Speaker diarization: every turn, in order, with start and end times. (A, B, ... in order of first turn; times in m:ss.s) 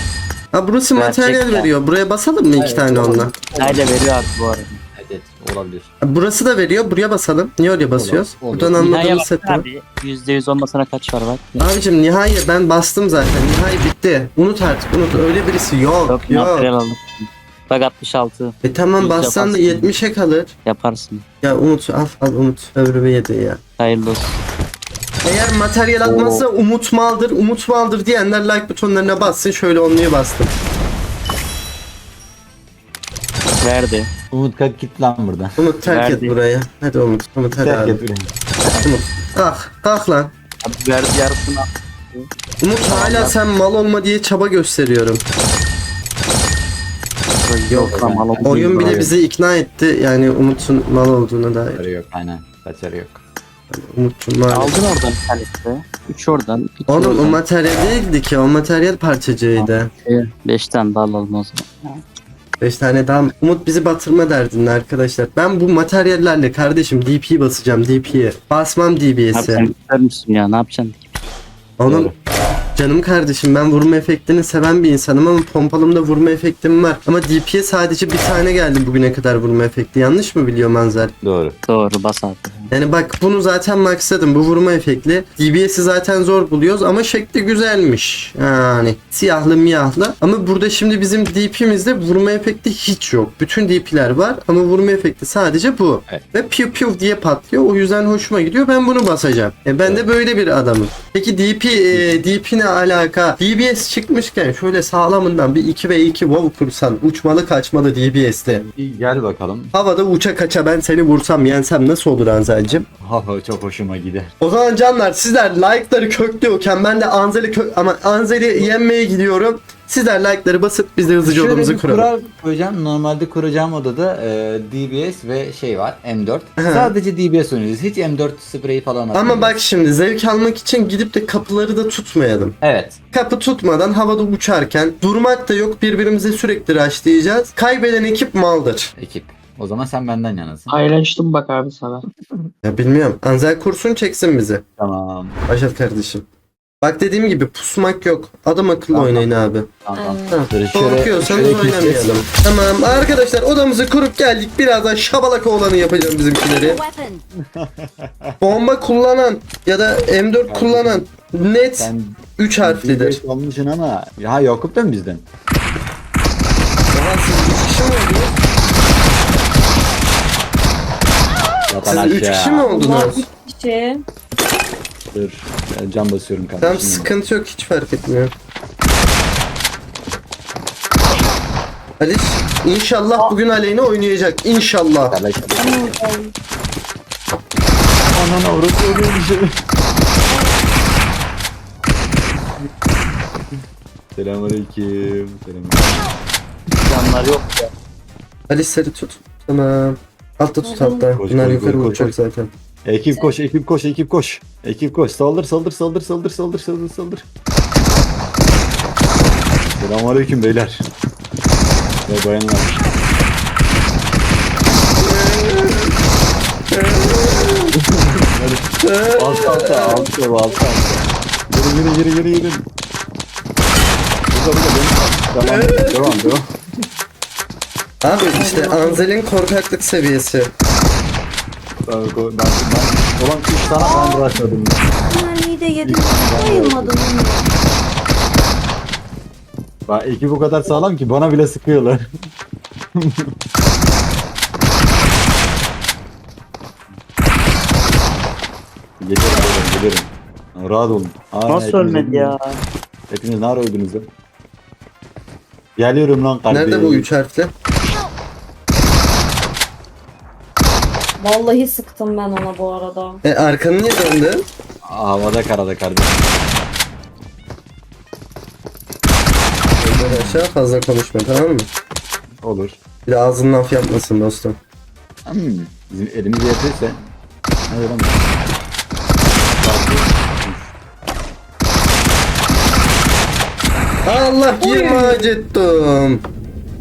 0:00.5-0:03.3 A
0:00.9-0:01.7 B
0:02.5-0:04.1 C
0:03.5-0:04.8 B
0:04.9-0:05.9 C
0:06.0-0:09.6 A
0:07.9-0:09.0 C
0:08.8-0:11.7 B
0:11.6-0:16.7 A
0:16.1-0:20.0 B
0:18.6-0:20.5 A
0:20.6-0:21.2 B
0:21.4-0:23.6 A
0:23.8-0:24.4 B
0:25.2-0:30.5 A
0:26.0-0:26.4 B
0:33.6-0:34.1 B
0:34.3-0:35.6 C
0:35.6-0:38.0 A
0:35.9-0:36.4 B
0:37.5-0:39.0 C
0:38.8-0:40.3 A
0:40.6-0:42.3 B
0:42.6-0:45.2 A
0:42.9-0:43.4 B
0:47.4-0:49.0 B
0:47.7-0:51.8 A
0:47.9-0:49.2 C
0:51.7-0:53.2 C
0:53.7-0:54.8 A
0:54.5-0:57.4 B
0:56.9-0:59.9 A
0:59.5-1:02.0 B
1:02.6-1:09.6 A
1:09.3-1:11.1 B
1:11.8-1:12.1 A
1:11.9-1:12.1 C
1:12.8-1:21.1 A
1:21.2-1:21.6 C
1:21.7-1:22.7 B
1:22.7-1:48.6 A
1:39.8-1:40.1 C
1:41.9-1:42.2 C
1:48.7-1:49.7 C
1:49.7-1:52.8 A
1:53.0-1:54.3 C
1:54.4-2:02.1 A
2:01.2-2:09.6 C
2:06.6-2:06.9 A
2:09.1-2:12.5 A
2:12.6-2:13.0 C
2:13.1-2:18.9 A
2:19.0-2:20.7 C
2:22.6-2:24.6 A
2:24.8-2:25.4 C
2:25.5-2:26.2 A
2:26.8-2:29.7 A
2:28.9-2:29.3 C
2:29.8-2:32.2 C
2:30.0-2:30.4 D
2:30.3-2:36.8 A
2:37.5-2:38.4 C
2:38.4-2:43.2 A
2:40.5-2:41.1 C
2:41.8-2:45.2 C
2:46.9-2:48.3 A
2:51.7-2:52.7 C
2:51.8-2:53.2 A
2:52.6-2:54.0 D
2:55.1-2:57.1 C
2:56.6-2:58.3 A
3:02.0-3:05.2 A
3:05.1-3:06.0 C
3:05.6-3:06.3 D
3:08.1-3:09.5 C
3:10.2-3:10.6 D
3:14.2-3:16.0 C
3:16.8-3:17.7 B
3:18.5-3:22.5 A
3:20.6-3:21.1 D
3:21.1-3:22.1 C
3:22.8-3:27.2 C
3:29.7-3:30.9 C
3:32.0-3:32.7 C
3:35.0-3:35.9 A
3:36.7-3:37.7 A
3:37.7-3:42.6 C
3:38.8-3:40.1 A
3:44.3-3:46.5 C
3:45.4-3:46.3 A
3:48.0-3:50.5 A
3:48.4-3:49.1 D
3:51.9-3:54.8 C
3:53.8-3:54.4 D
3:55.0-3:57.5 D
3:55.8-3:57.1 C
3:59.9-4:02.1 C
4:02.9-4:03.3 C
4:09.0-4:12.3 C
4:11.5-4:12.6 B
4:13.1-4:14.1 C
4:15.8-4:17.1 C
4:16.5-4:17.5 A
4:21.2-4:23.2 D
4:23.2-4:24.4 A
4:24.8-4:26.3 C
4:29.8-4:31.7 A
4:29.8-4:30.5 C
4:32.4-4:32.8 C
4:33.0-4:34.6 A
4:35.2-4:37.1 C
4:37.7-4:38.3 C
4:39.6-4:40.7 C
4:44.0-4:46.2 A
4:44.6-4:45.3 D